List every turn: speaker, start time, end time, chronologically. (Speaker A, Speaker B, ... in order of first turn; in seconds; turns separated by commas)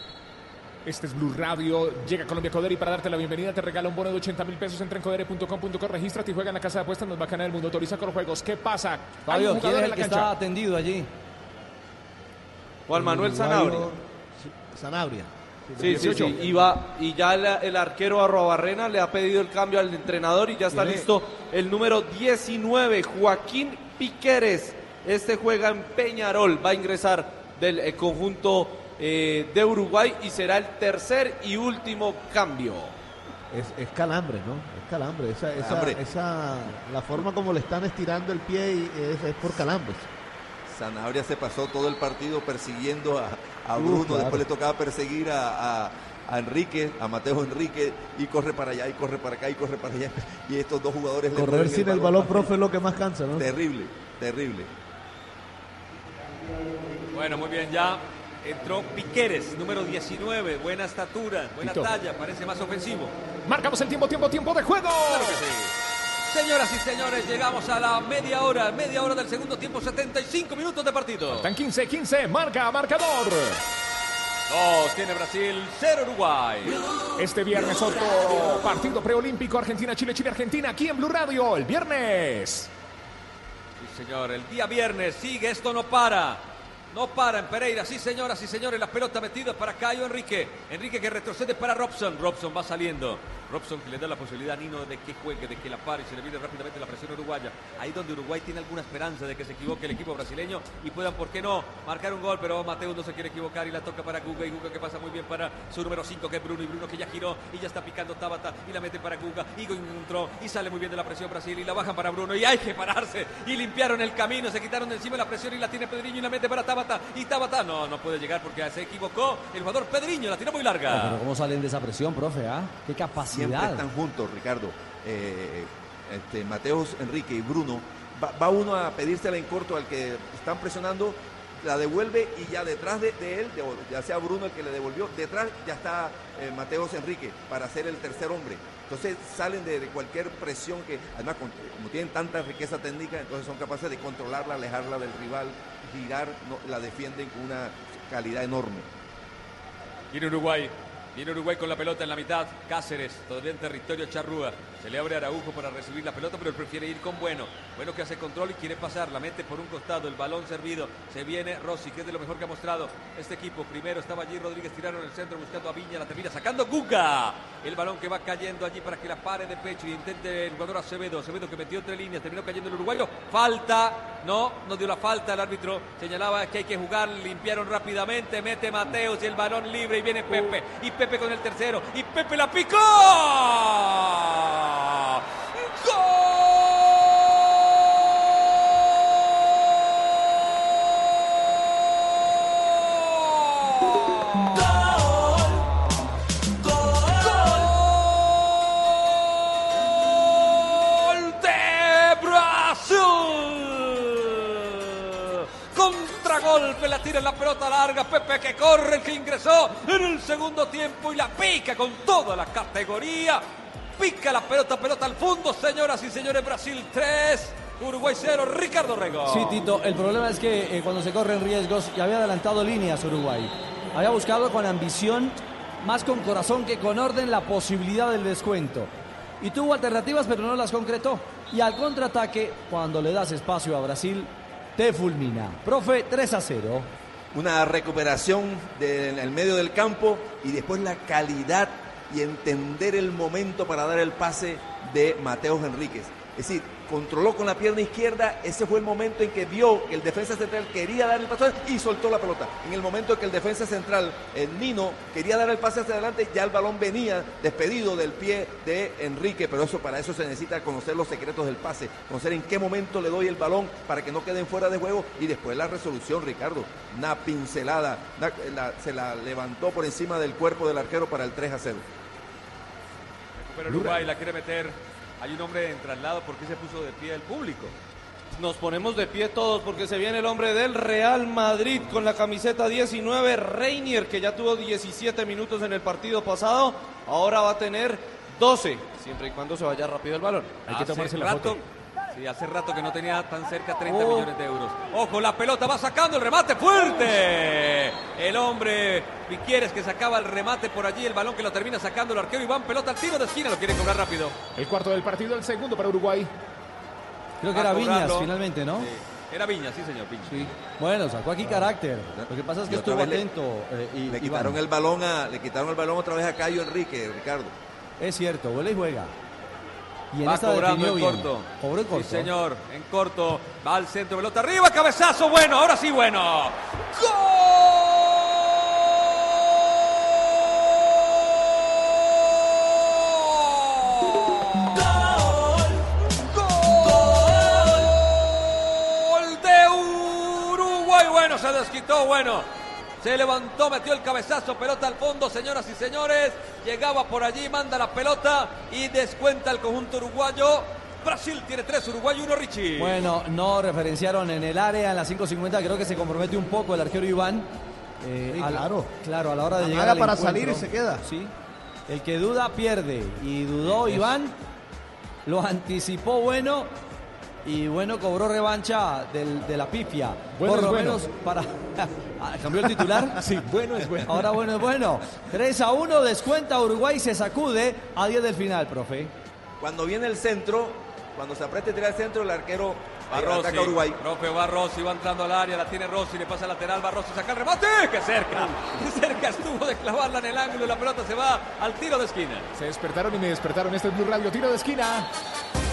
Speaker A: 0.8-10.3, Speaker B: 9.3-11.1, Speaker C: 12.9-13.9, Speaker D: 12.9-16.7, Speaker C: 15.8-33.0, Speaker B: 15.8-16.4, Speaker D: 20.7-21.1, Speaker D: 33.5-40.1, Speaker E: 35.5-36.0, Speaker E: 40.7-52.5, Speaker D: 43.8-44.4, Speaker D: 51.3-53.5, Speaker E: 53.4-54.7, Speaker F: 57.1-63.1, Speaker A: 61.6-61.9, Speaker A: 63.5-65.4, Speaker F: 65.1-65.7, Speaker F: 66.3-71.5, Speaker A: 71.3-73.6, Speaker F: 74.5-76.8, Speaker A: 77.2-82.7, Speaker F: 83.8-121.2, Speaker B: 120.9-123.8, Speaker E: 123.3-148.9, Speaker F: 150.1-194.7, Speaker F: 197.0-219.6, Speaker B: 219.3-236.9, Speaker E: 237.3-271.8, Speaker F: 273.3-277.8, Speaker C: 278.3-290.6, Speaker A: 290.6-291.6, Speaker F: 290.7-304.4, Speaker A: 304.5-306.3, Speaker B: 307.4-308.9, Speaker F: 307.5-310.5, Speaker B: 310.2-314.6, Speaker E: 312.1-313.2, Speaker E: 314.1-317.5, Speaker B: 318.0-319.1, Speaker B: 320.1-322.3, Speaker F: 320.2-335.4, Speaker F: 336.3-342.5, Speaker F: 343.0-353.1, Speaker B: 352.8-357.5, Speaker B: 358.0-361.3, Speaker D: 358.3-358.9, Speaker D: 359.6-361.0, Speaker B: 361.9-364.3, Speaker B: 365.2-366.7, Speaker B: 367.4-373.2, Speaker A: 370.4-371.0, Speaker A: 373.2-374.3, Speaker B: 374.0-379.1, Speaker E: 379.6-384.0, Speaker F: 383.1-392.5, Speaker A: 392.5-395.1